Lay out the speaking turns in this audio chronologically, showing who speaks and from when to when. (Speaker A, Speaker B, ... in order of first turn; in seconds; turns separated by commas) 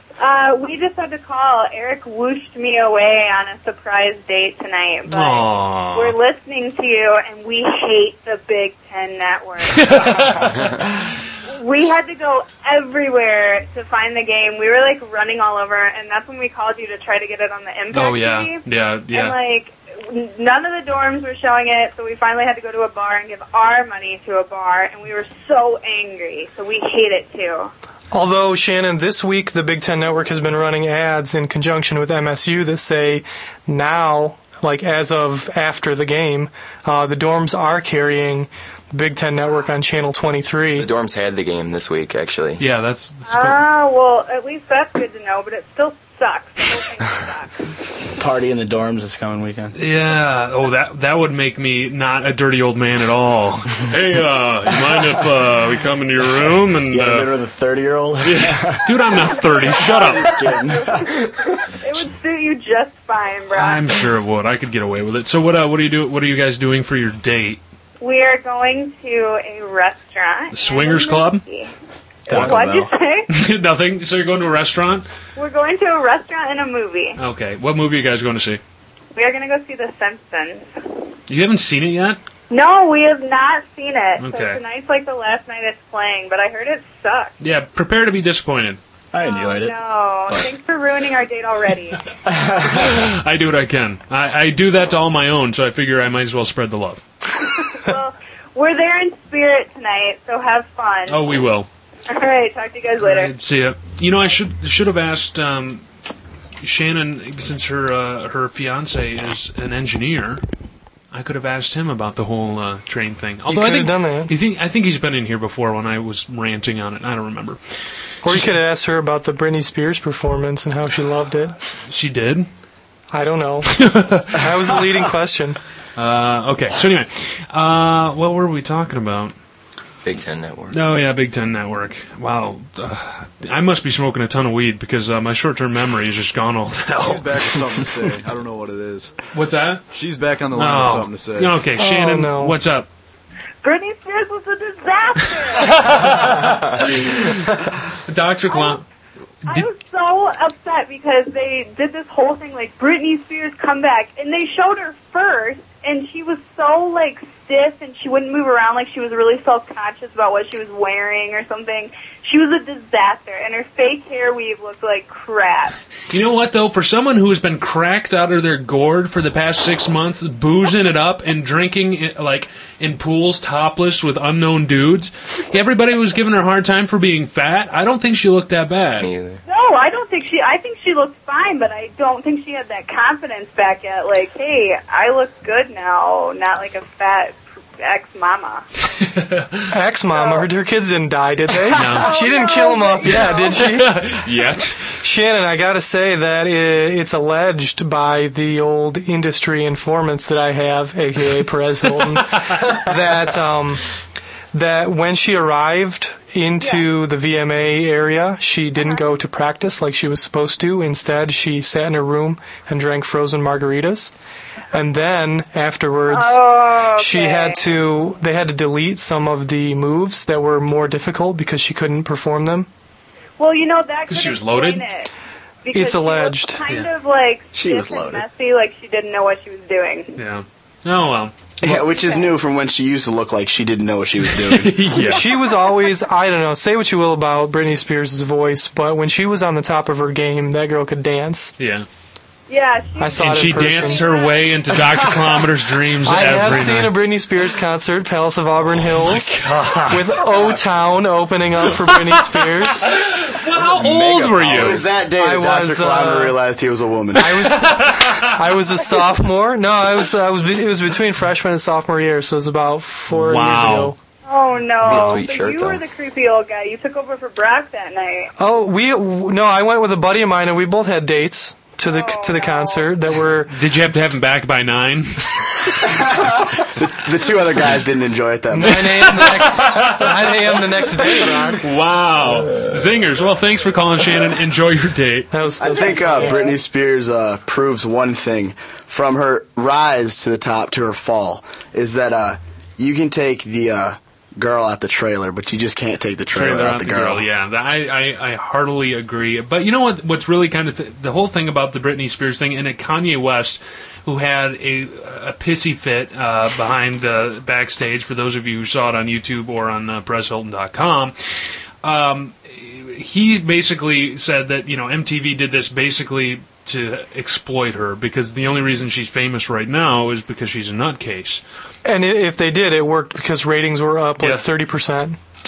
Speaker A: 0.2-10.3, Speaker B: 5.1-6.2, Speaker B: 9.7-11.1, Speaker A: 11.5-27.7, Speaker B: 17.9-19.4, Speaker C: 28.1-40.9, Speaker D: 40.8-42.6, Speaker B: 42.6-43.6, Speaker A: 43.3-47.6, Speaker E: 48.2-49.8, Speaker B: 49.8-57.3, Speaker E: 56.9-59.0, Speaker B: 58.2-60.4, Speaker A: 59.3-64.0, Speaker E: 59.7-61.7, Speaker B: 63.5-67.6, Speaker A: 68.0-71.7, Speaker B: 70.5-71.4, Speaker A: 72.3-73.3, Speaker E: 72.3-72.9, Speaker B: 73.3-75.1, Speaker A: 75.4-77.2, Speaker B: 77.2-78.6, Speaker A: 79.2-80.7, Speaker B: 81.3-82.2, Speaker A: 82.5-87.3, Speaker B: 84.2-84.6, Speaker B: 87.4-88.8, Speaker E: 89.1-89.8, Speaker A: 89.2-92.1, Speaker E: 92.2-93.1, Speaker B: 92.6-97.0, Speaker A: 97.3-101.4, Speaker B: 101.1-101.7, Speaker A: 102.1-103.3, Speaker B: 103.0-105.8, Speaker B: 106.6-110.4, Speaker B: 111.1-117.6, Speaker C: 113.5-114.3, Speaker C: 118.2-121.6, Speaker B: 121.9-122.5, Speaker C: 123.1-125.6, Speaker B: 123.7-124.5, Speaker B: 126.0-129.3, Speaker D: 130.0-130.8, Speaker B: 130.7-137.4, Speaker F: 137.0-139.1, Speaker B: 139.3-139.8, Speaker F: 139.9-141.6, Speaker B: 140.6-142.9, Speaker C: 141.8-142.6, Speaker A: 143.6-145.9, Speaker B: 145.6-148.8, Speaker A: 148.5-148.8, Speaker A: 149.5-165.8, Speaker B: 166.1-179.1, Speaker D: 179.0-179.4, Speaker A: 179.5-188.7, Speaker B: 189.0-189.7, Speaker C: 189.7-194.2, Speaker A: 190.1-190.5, Speaker B: 191.7-192.1, Speaker A: 191.9-193.8, Speaker B: 193.0-194.8, Speaker C: 195.0-203.9, Speaker B: 202.3-202.8, Speaker C: 204.5-214.1, Speaker C: 214.7-216.4, Speaker A: 216.1-217.6, Speaker C: 217.0-222.7, Speaker A: 223.4-225.1, Speaker B: 224.1-224.8, Speaker A: 225.6-230.2, Speaker C: 225.7-226.6, Speaker E: 227.5-228.2, Speaker B: 230.2-231.8, Speaker E: 231.6-234.8, Speaker A: 231.9-232.3, Speaker B: 234.3-235.3, Speaker A: 235.0-235.8, Speaker C: 235.0-241.5, Speaker B: 241.6-241.9, Speaker A: 242.5-244.5, Speaker C: 243.0-244.0, Speaker B: 243.1-247.0, Speaker C: 246.1-252.9, Speaker B: 249.0-250.2, Speaker B: 251.7-254.8, Speaker D: 253.6-254.9, Speaker E: 254.5-257.5, Speaker C: 255.2-256.4, Speaker C: 257.1-264.0, Speaker B: 257.4-258.4, Speaker B: 263.1-263.9, Speaker A: 264.3-268.3, Speaker D: 264.8-265.8, Speaker C: 268.4-273.5, Speaker A: 271.9-272.9, Speaker B: 273.5-275.6, Speaker E: 275.9-279.2, Speaker C: 278.5-281.7, Speaker B: 278.6-285.3, Speaker C: 285.3-286.5, Speaker E: 285.6-297.2, Speaker B: 296.3-311.1, Speaker B: 311.8-321.4, Speaker C: 321.9-325.2, Speaker B: 324.2-324.5